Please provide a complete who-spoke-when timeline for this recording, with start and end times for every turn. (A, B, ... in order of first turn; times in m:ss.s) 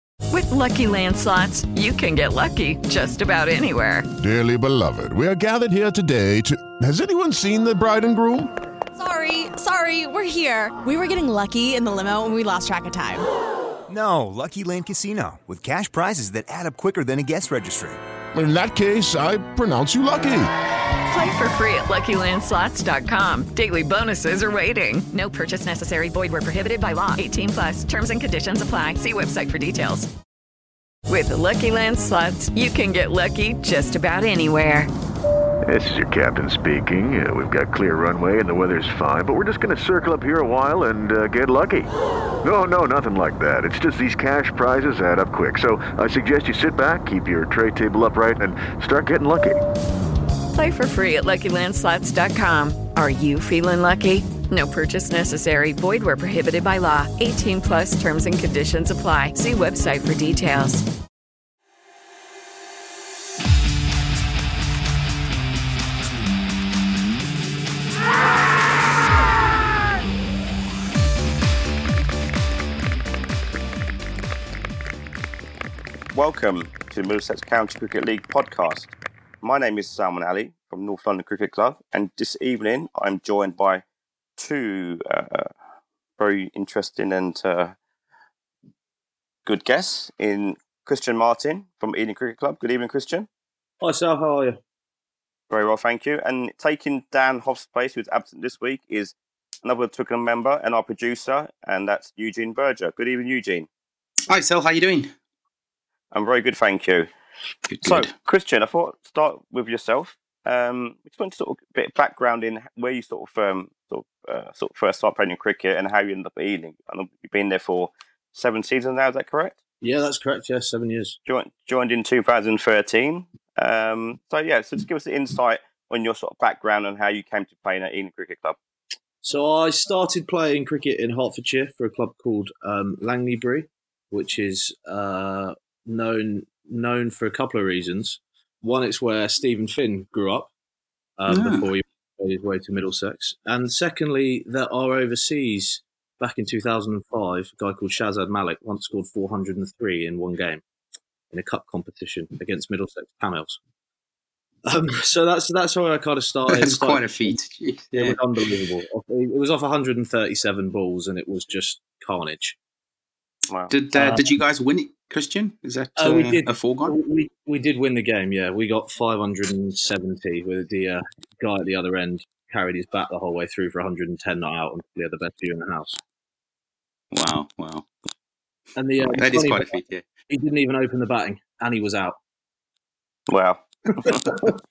0:00.3-0:04.1 A
0:04.2-0:08.5 B
0:08.9-0:13.2 C
0:13.9-0:18.0 D
0:18.3-0:20.5 B
0:21.1-0:30.1 A
0:31.1-0:34.9 A
0:35.7-0:41.9 E
0:42.4-0:49.6 E
0:50.5-1:00.8 A
1:16.1-1:23.8 F
1:24.4-1:25.5 F
1:26.2-1:27.8 F
1:29.4-1:33.3 F
1:33.8-1:34.6 G
1:35.5-1:43.7 F
1:44.3-1:45.1 H
1:46.1-1:47.1 F
1:47.7-1:48.1 H
1:47.8-1:59.6 F
1:59.8-2:01.2 G
2:01.2-2:08.6 F
2:09.2-2:20.5 G
2:21.2-2:30.6 G
2:21.3-2:21.7 H
2:31.3-2:33.6 G
2:34.6-2:37.4 G
2:36.5-2:38.2 H
2:37.9-2:42.6 G
2:43.7-2:46.9 H
2:43.9-2:44.2 G
2:46.0-2:56.0 G
2:57.1-2:57.9 H
2:58.8-2:59.7 G
2:59.0-3:00.1 H
3:00.3-3:02.2 G
3:03.3-3:04.3 F
3:04.0-3:04.6 G